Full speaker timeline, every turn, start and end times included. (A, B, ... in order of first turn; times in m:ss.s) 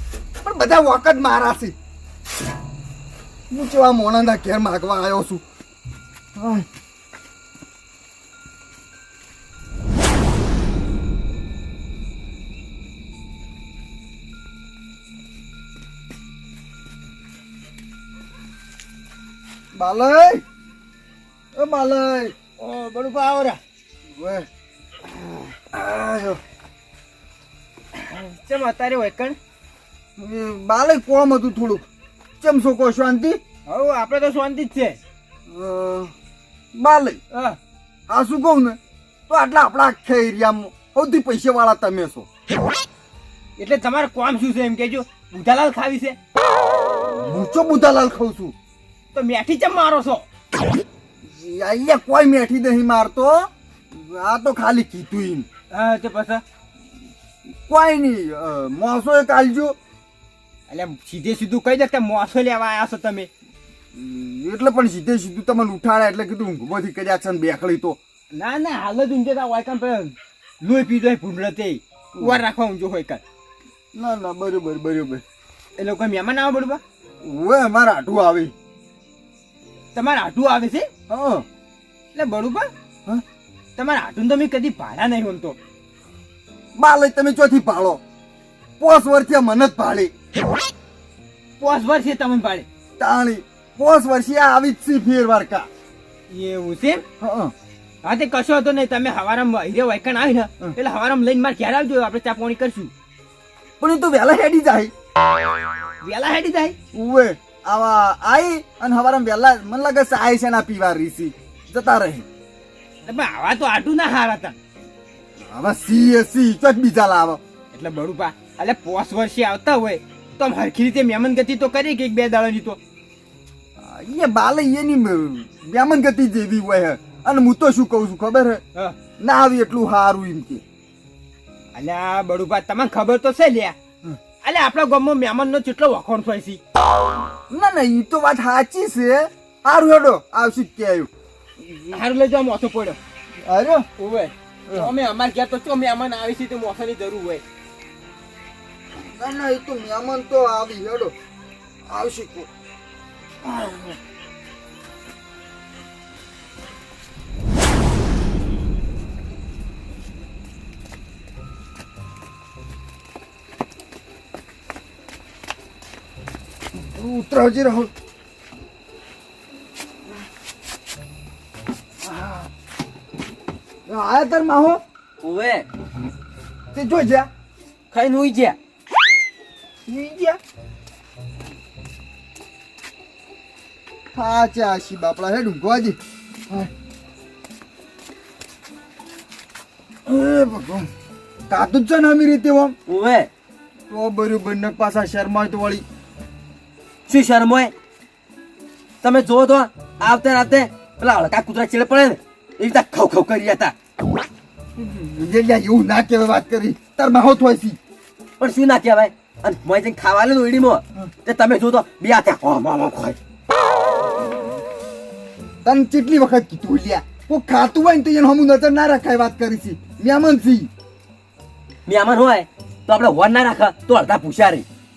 0:00.4-0:01.8 A
0:03.5-0:05.4 A
0:06.4-0:06.7 A
0:19.7-0:20.4 A
0:21.5-0:22.4 A
0:22.6-0:23.6 B
0:24.2-0:24.5 A
0:25.7-0:26.4 A
0:28.1-0:29.4 B
0:30.2-0:31.9 A
0:32.4-0:33.4 A
0:33.7-0:35.0 B
0:35.5-0:36.1 A
0:36.7-0:37.2 A
0:37.3-0:37.6 B
0:38.1-0:42.3 A
0:43.6-0:46.2 B
0:47.1-0:48.5 A
0:49.1-0:50.2 B
0:51.2-0:55.5 A
0:55.7-0:56.4 B
0:57.7-0:59.8 A
1:00.7-1:03.3 B
1:03.9-1:08.0 A
1:08.3-1:13.2 B
1:12.2-1:12.4 A
1:13.9-1:15.2 A
1:15.8-1:16.8 B
1:17.2-1:18.5 A
1:20.0-1:20.9 B
1:21.1-1:21.4 A
1:22.2-1:22.7 B
1:23.8-1:25.6 B
1:26.8-1:28.0 A
1:28.8-1:30.1 A
1:31.6-1:32.7 B
1:33.0-1:35.7 A
1:36.3-1:37.0 B
1:37.2-1:37.5 A
1:38.0-1:42.9 B
1:43.8-1:44.9 A
1:46.0-1:46.8 B
1:46.9-1:52.3 A
1:53.0-1:54.6 B
1:55.4-1:57.4 A
1:57.7-2:02.8 B
2:03.8-2:08.6 A
2:09.2-2:10.6 A
2:11.8-2:13.8 B
2:14.4-2:16.6 B
2:17.5-2:21.1 A
2:21.9-2:23.0 B
2:23.4-2:23.9 A
2:24.0-2:27.4 B
2:29.0-2:31.1 A
2:31.9-2:32.5 A
2:33.4-2:34.0 A
2:46.8-2:47.9 A
2:52.0-2:52.5 A
2:53.9-2:54.8 A
2:55.2-2:55.7 C
2:56.7-2:57.3 A
2:57.9-2:58.6 C
2:59.9-3:00.4 A
3:04.1-3:06.0 A
3:10.1-3:10.9 A
3:11.5-3:12.8 A
3:12.9-3:13.3 C
3:13.9-3:15.8 A
3:17.1-3:17.7 C
3:19.0-3:23.7 C
3:24.8-3:27.8 A
3:28.4-3:33.2 C
3:35.6-3:40.7 A
3:41.9-3:44.6 C